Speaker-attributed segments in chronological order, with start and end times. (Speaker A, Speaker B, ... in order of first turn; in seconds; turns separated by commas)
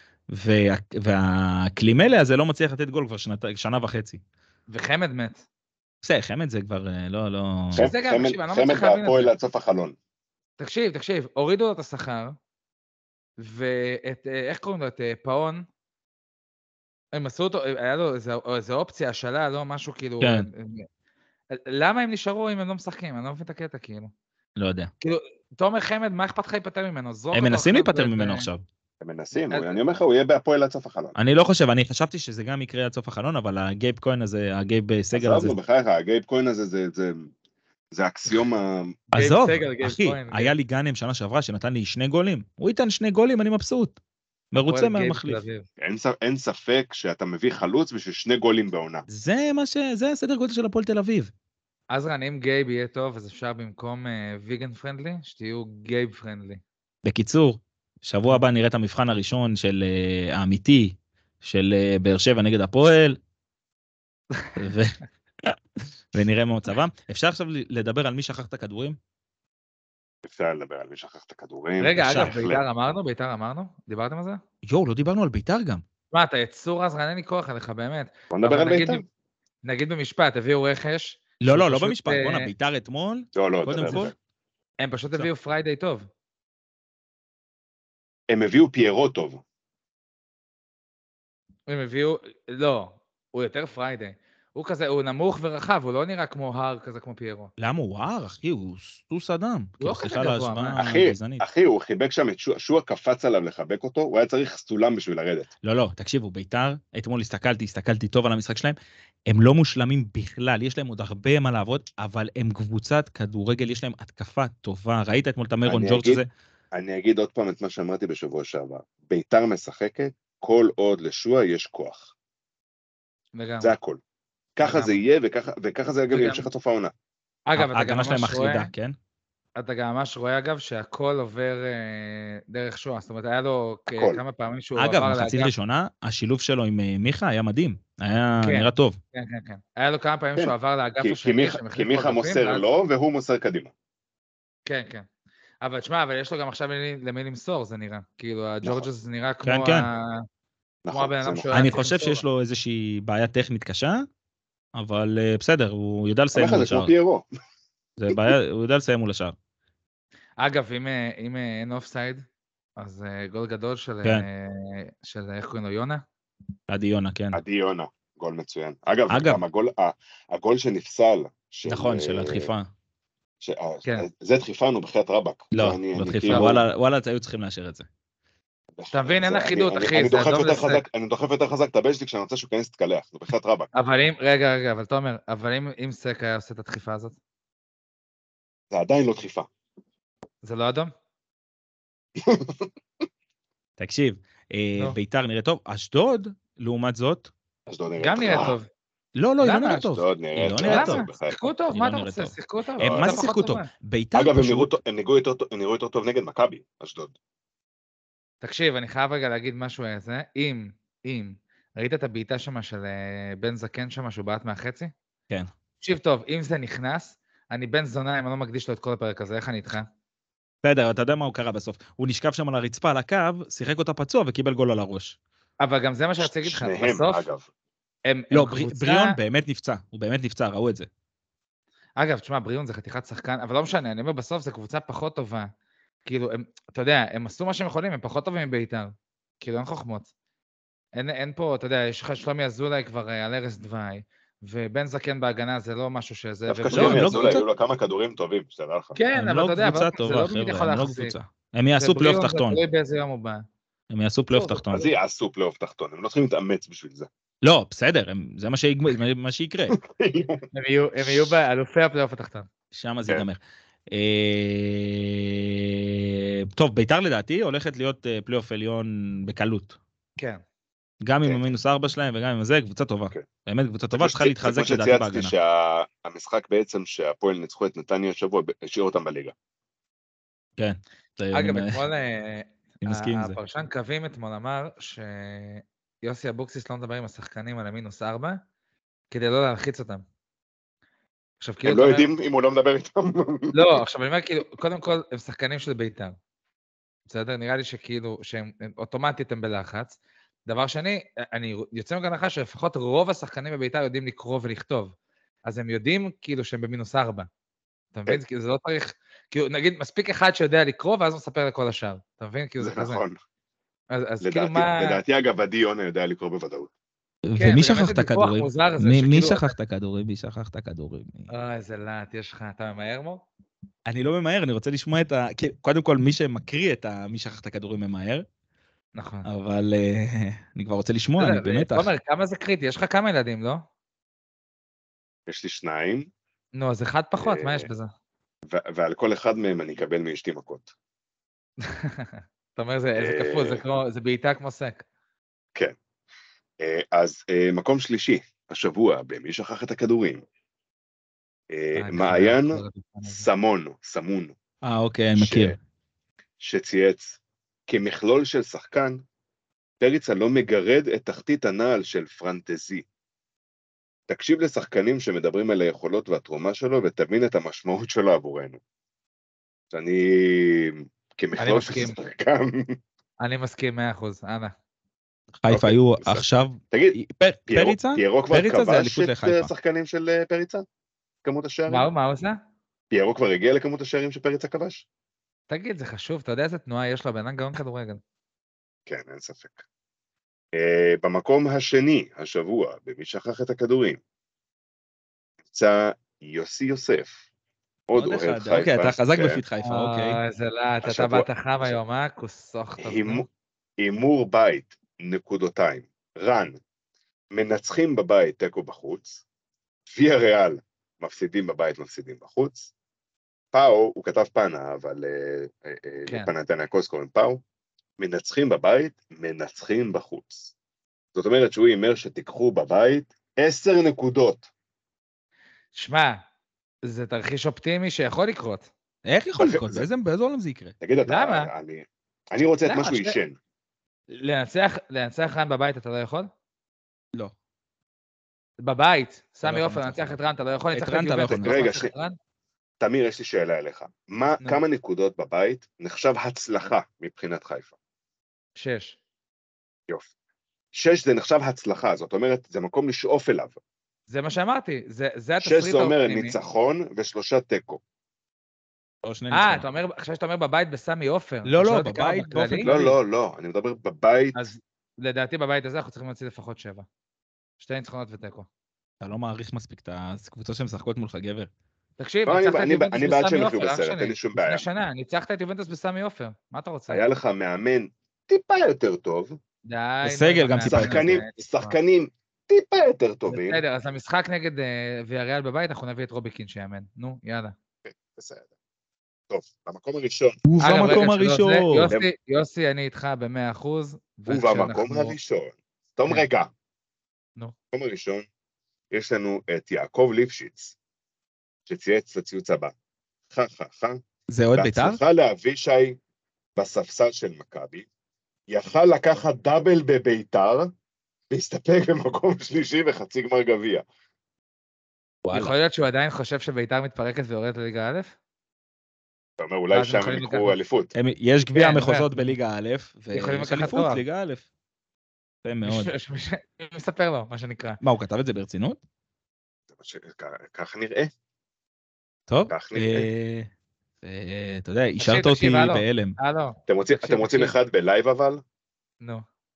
Speaker A: 0.3-4.2, Speaker B: 4.7-5.4, Speaker A: 6.0-7.9, Speaker C: 7.8-10.0, Speaker B: 7.8-9.3, Speaker B: 10.6-12.4, Speaker B: 13.4-15.7, Speaker B: 17.1-20.9, Speaker A: 20.2-20.5, Speaker B: 21.5-24.1, Speaker A: 24.6-24.9, Speaker B: 25.0-28.5, Speaker A: 27.3-28.6, Speaker C: 29.0-31.2, Speaker A: 31.2-35.6, Speaker C: 35.1-37.3, Speaker C: 37.9-39.0, Speaker B: 39.1-40.5, Speaker A: 39.1-44.0, Speaker A: 44.5-45.4, Speaker B: 44.6-45.6, Speaker C: 45.8-49.1, Speaker A: 49.1-51.3, Speaker B: 51.9-56.6, Speaker A: 57.0-63.2, Speaker A: 64.6-65.6, Speaker A: 66.1-69.0, Speaker C: 70.2-72.6, Speaker B: 71.8-74.4, Speaker A: 72.0-72.4, Speaker A: 74.7-75.8, Speaker B: 76.1-79.0, Speaker C: 78.3-79.0, Speaker B: 79.6-82.5, Speaker A: 81.4-84.1, Speaker C: 83.3-84.2, Speaker B: 84.8-86.1, Speaker C: 88.3-89.4, Speaker B: 91.7-97.5, Speaker A: 97.6-101.4, Speaker B: 99.8-100.8, Speaker C: 100.8-105.5, Speaker A: 105.6-108.8, Speaker A: 109.3-116.3, Speaker C: 115.7-116.2, Speaker C: 116.7-122.1, Speaker B: 123.4-123.7, Speaker C: 123.6-124.0, Speaker C: 124.6-126.9, Speaker B: 124.6-125.0, Speaker B: 126.1-126.5, Speaker B: 127.5-128.7, Speaker A: 127.6-129.0, Speaker B: 129.6-135.5, Speaker C: 133.9-134.2, Speaker A: 134.8-139.0, Speaker B: 138.4-142.6, Speaker C: 140.4-143.7, Speaker B: 144.7-145.1, Speaker B: 145.6-150.2, Speaker C: 148.6-148.9, Speaker A: 149.4-149.9, Speaker C: 150.8-151.5, Speaker B: 150.9-152.2, Speaker A: 151.5-154.1, Speaker A: 154.8-156.9, Speaker C: 156.3-157.3, Speaker A: 158.0-159.4, Speaker B: 160.4-162.2, Speaker B: 162.8-166.0, Speaker A: 166.7-167.4, Speaker C: 167.3-172.5, Speaker A: 169.1-169.4, Speaker A: 171.7-172.7, Speaker C: 173.4-176.7, Speaker A: 175.5-177.9, Speaker C: 178.8-183.7, Speaker B: 178.9-180.8, Speaker B: 183.7-187.2, Speaker C: 188.7-189.5, Speaker B: 190.4-190.9, Speaker C: 192.2-192.7, Speaker A: 193.8-197.3, Speaker C: 197.7-198.6, Speaker B: 198.0-198.7, Speaker A: 199.2-201.1, Speaker B: 199.4-199.8, Speaker C: 199.7-201.4, Speaker B: 200.6-203.7, Speaker A: 201.7-204.7, Speaker C: 202.8-203.2, Speaker C: 204.2-207.2, Speaker B: 208.4-214.9, Speaker B: 215.8-219.9, Speaker A: 220.6-225.2, Speaker B: 225.6-227.2, Speaker C: 226.2-227.5, Speaker B: 228.1-229.2, Speaker A: 228.3-230.9, Speaker B: 232.0-235.5, Speaker B: 236.1-240.1, Speaker B: 240.9-247.3, Speaker C: 246.5-249.0, Speaker A: 246.7-247.4, Speaker B: 248.9-251.2, Speaker A: 249.2-252.6, Speaker B: 251.8-253.4, Speaker A: 253.9-254.8, Speaker C: 254.3-257.1, Speaker A: 257.4-259.8, Speaker C: 259.8-260.5, Speaker B: 260.5-262.5, Speaker C: 261.0-261.3, Speaker A: 262.7-263.4, Speaker A: 263.9-269.8, Speaker B: 270.2-270.4, Speaker A: 271.0-275.3, Speaker C: 271.2-271.5, Speaker C: 273.9-279.3, Speaker A: 280.6-281.8, Speaker B: 281.3-288.4, Speaker A: 282.8-283.4, Speaker B: 289.1-290.0, Speaker B: 291.4-292.1, Speaker C: 291.6-293.8, Speaker B: 293.5-296.2, Speaker B: 297.1-304.9, Speaker B: 305.4-307.3, Speaker B: 307.9-313.0, Speaker C: 312.6-313.2, Speaker B: 313.9-315.0, Speaker C: 314.2-316.7, Speaker A: 317.3-321.3, Speaker B: 317.4-319.5, Speaker B: 321.3-323.2, Speaker A: 323.9-328.3, Speaker B: 328.9-329.3, Speaker A: 329.2-331.9, Speaker B: 331.2-333.6, Speaker C: 335.3-336.1, Speaker B: 336.6-337.9, Speaker C: 337.2-337.7, Speaker C: 338.5-340.7, Speaker B: 341.6-344.8, Speaker C: 343.0-343.6, Speaker C: 346.6-350.2, Speaker C: 351.5-354.4, Speaker B: 351.8-353.3, Speaker A: 354.6-355.6, Speaker C: 355.2-355.6, Speaker C: 356.4-359.0, Speaker C: 359.8-362.9, Speaker C: 364.1-368.6, Speaker C: 369.7-372.8, Speaker B: 371.4-372.0, Speaker B: 373.2-374.5, Speaker A: 375.4-379.5, Speaker C: 375.5-380.6, Speaker C: 381.2-381.9, Speaker B: 381.7-382.4, Speaker C: 382.9-384.9, Speaker B: 385.5-388.0, Speaker C: 388.9-389.6, Speaker C: 390.5-394.0, Speaker C: 395.5-397.2, Speaker C: 397.9-399.4, Speaker A: 398.0-400.2, Speaker B: 399.6-403.3, Speaker C: 400.8-401.3, Speaker C: 402.8-403.3, Speaker C: 403.8-406.6, Speaker C: 407.3-409.2, Speaker C: 409.9-412.7, Speaker C: 413.5-417.4, Speaker C: 418.0-420.5, Speaker C: 421.1-424.5, Speaker B: 425.8-426.2, Speaker B: 426.8-428.7, Speaker A: 429.1-430.8, Speaker C: 429.4-429.9, Speaker C: 430.8-433.4, Speaker B: 431.1-431.5, Speaker B: 432.6-433.2, Speaker B: 434.1-436.3, Speaker B: 438.6-442.2, Speaker A: 439.4-440.2, Speaker A: 440.7-441.6, Speaker C: 441.4-441.9, Speaker C: 442.8-447.7, Speaker B: 448.6-449.0, Speaker C: 450.7-453.6, Speaker B: 454.1-456.4, Speaker C: 455.4-457.8, Speaker A: 459.0-459.7, Speaker B: 459.3-462.7, Speaker A: 461.4-463.0, Speaker C: 462.6-464.5, Speaker B: 464.4-466.9, Speaker B: 467.6-468.5, Speaker A: 469.0-471.5, Speaker B: 472.0-477.0, Speaker C: 472.3-474.6, Speaker C: 476.9-479.4, Speaker B: 479.6-481.8, Speaker A: 480.0-481.1, Speaker C: 480.6-483.6, Speaker B: 483.3-487.5, Speaker C: 487.9-488.5, Speaker C: 489.3-490.4, Speaker A: 490.4-491.9, Speaker B: 490.6-495.1, Speaker C: 494.3-496.5, Speaker C: 497.7-498.3, Speaker C: 498.9-500.8, Speaker C: 501.7-502.7, Speaker C: 503.3-504.0, Speaker A: 504.3-505.0, Speaker C: 504.6-506.0, Speaker C: 506.6-507.9, Speaker C: 508.5-510.7, Speaker C: 511.3-513.8, Speaker A: 515.2-515.5, Speaker B: 515.3-518.1, Speaker C: 519.4-520.9, Speaker B: 519.7-520.6, Speaker A: 520.9-524.5, Speaker B: 521.5-522.4, Speaker B: 523.1-524.0, Speaker A: 525.4-525.9, Speaker B: 525.6-527.8, Speaker A: 527.8-528.8, Speaker C: 529.7-531.1, Speaker A: 532.3-533.5, Speaker C: 532.5-533.1, Speaker A: 534.0-536.2, Speaker B: 535.0-537.5, Speaker C: 536.7-538.4